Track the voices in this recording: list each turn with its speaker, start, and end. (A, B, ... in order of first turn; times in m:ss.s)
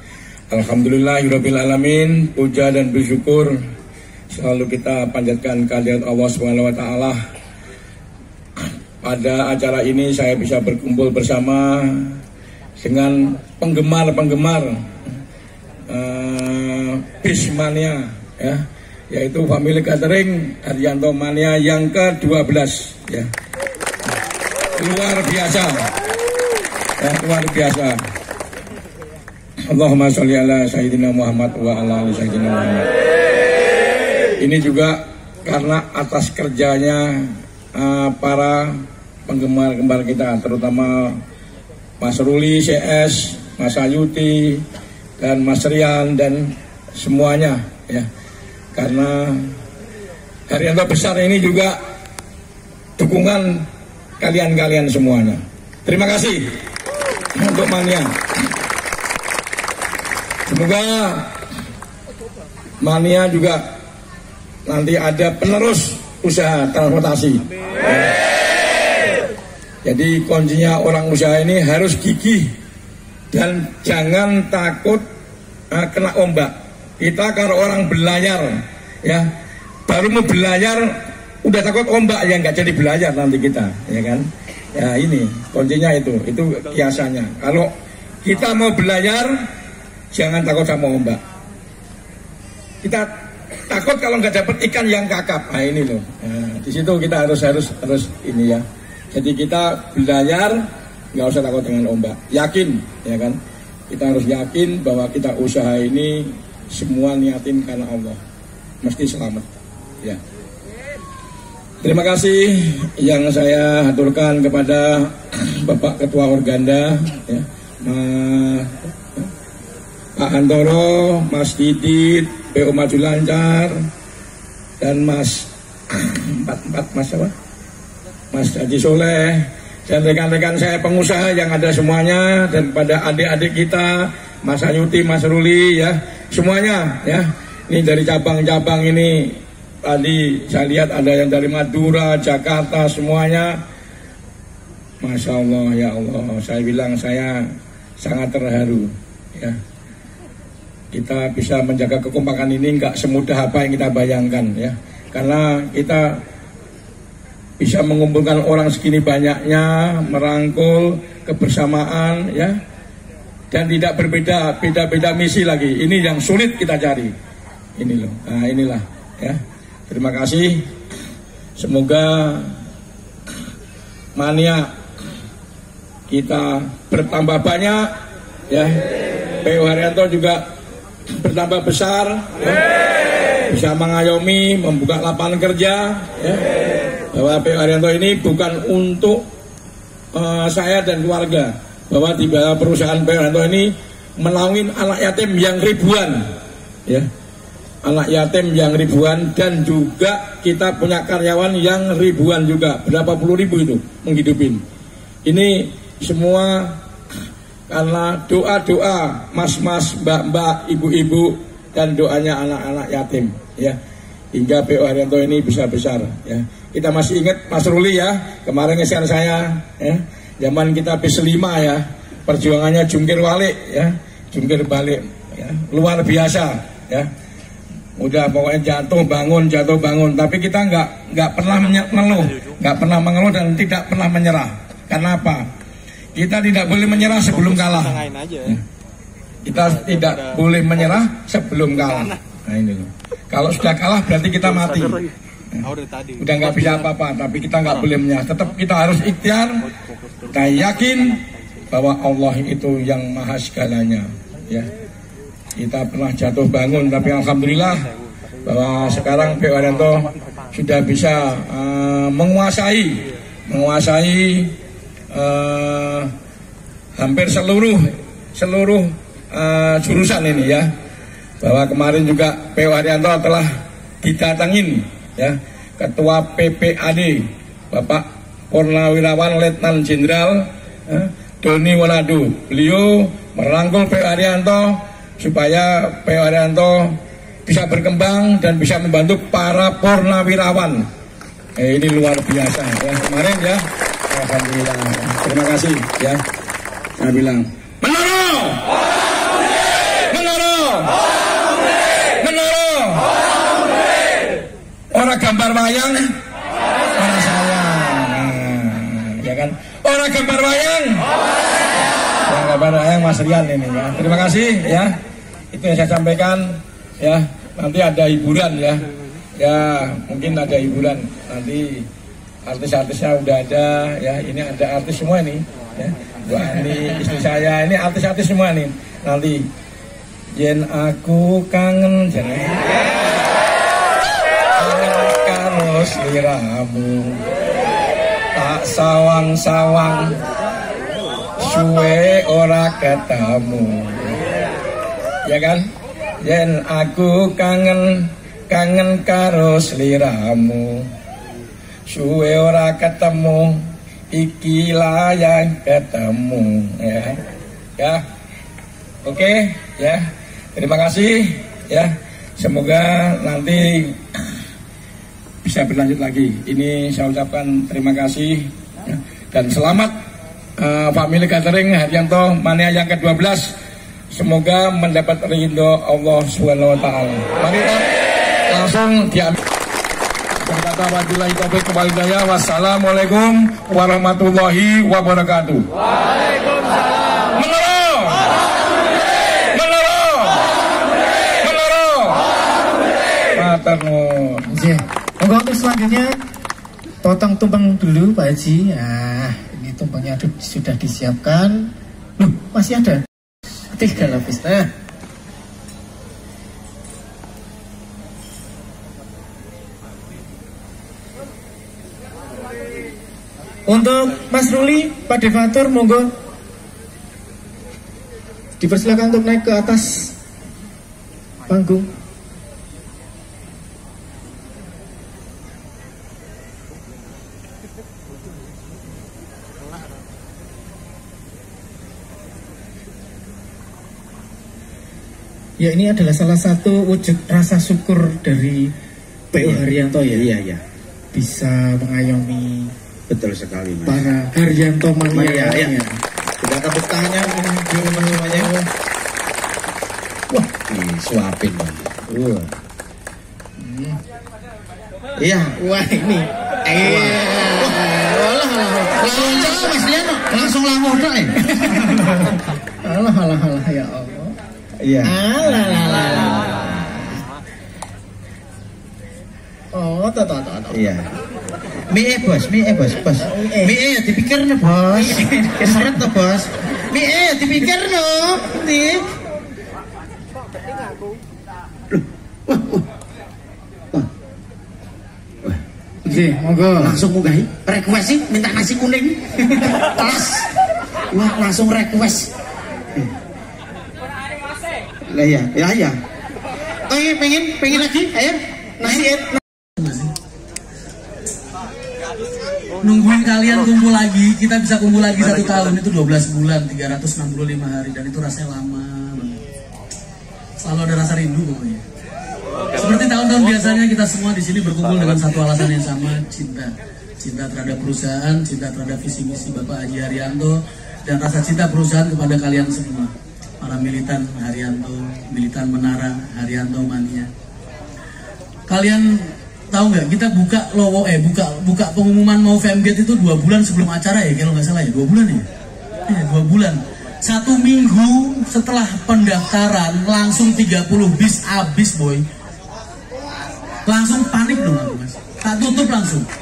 0:00.5-0:03.6 A
0:04.3-0:07.2 A
0:08.6-0:12.2 A
0:12.8-0:14.9 A
0:15.9-0:23.3 A
0:24.8-0:25.9 A
0:27.0-0:28.0 A
0:29.7-0:32.9 A
0:34.4-0:41.2 A
0:42.0-0:44.6 A
0:45.2-0:48.1 A
0:48.7-0:49.6 A
0:50.5-0:51.8 A
0:53.0-0:53.6 A
0:54.2-0:56.5 A
0:57.3-0:58.2 A
1:00.5-1:01.3 A
1:02.8-1:03.6 A
1:04.7-1:08.1 A
1:09.8-1:12.5 A
1:13.3-1:15.0 A
1:15.7-1:19.2 A
1:19.9-1:20.9 A
1:21.4-1:27.7 A
1:28.2-1:29.4 A
1:30.1-1:31.2 A
1:32.8-1:33.1 A
1:33.7-1:43.4 A
1:43.9-1:48.2 A
1:48.8-1:49.5 A
1:51.8-1:59.3 A
2:00.2-2:03.8 A
2:04.8-2:07.3 A
2:08.3-2:23.6 A
2:25.0-2:29.6 A
2:30.9-2:36.2 A
2:37.6-2:42.6 A
2:43.5-2:47.1 A
2:47.8-2:50.7 A
2:51.6-2:52.5 A
2:54.1-2:54.7 A
2:56.1-2:57.9 A
2:58.5-2:58.8 A
2:59.4-3:00.4 A
3:01.1-3:02.6 A
3:03.5-3:06.4 A
3:07.1-3:09.2 A
3:10.1-3:16.3 A
3:17.8-3:24.6 A
3:25.2-3:26.8 A
3:27.7-3:33.8 A
3:34.3-3:47.1 A
3:48.0-3:55.5 A
3:56.1-3:58.6 A
3:59.4-4:05.0 A
4:06.2-4:09.6 A
4:10.3-4:11.2 A
4:11.7-4:14.7 A
4:15.6-4:17.9 A
4:18.4-4:24.5 A
4:25.1-4:26.1 A
4:27.0-4:30.7 A
4:31.4-4:33.5 A
4:34.0-4:50.8 A
4:51.6-4:56.2 A
4:57.0-4:58.6 A
5:00.1-5:00.9 A
5:02.2-5:03.1 A
5:04.9-5:06.1 A
5:07.0-5:11.1 A
5:12.3-5:15.0 A
5:15.5-5:18.8 A
5:19.4-5:21.8 A
5:22.4-5:29.5 A
5:30.4-5:32.8 A
5:34.6-5:37.2 A
5:38.3-5:40.2 A
5:41.4-5:44.2 A
5:45.2-5:45.7 A
5:46.2-5:50.9 A
5:51.9-5:57.2 A
5:59.0-6:04.0 A
6:05.4-6:09.9 A
6:10.6-6:13.5 A
6:14.1-6:17.9 A
6:18.5-6:19.4 A
6:20.4-6:25.7 A
6:27.3-6:28.4 A
6:29.5-6:30.5 A
6:31.4-6:32.2 A
6:33.3-6:34.5 A
6:34.5-6:36.1 B
6:37.0-6:43.0 B
6:43.7-6:44.7 B
6:53.7-6:56.1 B
6:58.6-7:00.1 B
7:01.5-7:01.9 B
7:15.6-7:18.7 B
7:19.3-7:20.3 B
7:19.4-7:20.6 C
7:21.1-7:22.7 B
7:23.1-7:24.1 C
7:23.8-7:26.0 B
7:25.1-7:25.8 C
7:26.4-7:28.5 C
7:27.6-7:28.7 B
7:30.3-7:32.5 C
7:33.6-7:34.0 B
7:35.2-7:35.6 C
7:35.6-7:39.5 B
7:36.8-7:37.8 C
7:39.0-7:41.4 C
7:41.4-7:44.4 B
7:44.8-7:45.8 C
7:45.0-7:47.2 B
7:49.7-7:50.8 B
7:50.7-7:51.1 C
7:51.9-7:59.1 C
7:53.2-7:53.7 B
7:55.0-7:56.0 B
8:01.9-8:02.8 C
8:06.0-8:07.0 B
8:06.8-8:10.5 C
8:11.1-8:12.3 C
8:15.1-8:16.0 C
8:16.9-8:19.1 C
8:18.8-8:19.4 B
8:19.8-8:20.1 D
8:22.8-8:29.4 D
8:30.6-8:31.8 D
8:32.8-8:47.3 D
8:48.7-8:55.4 D
8:56.0-9:02.2 D
9:03.9-9:06.2 D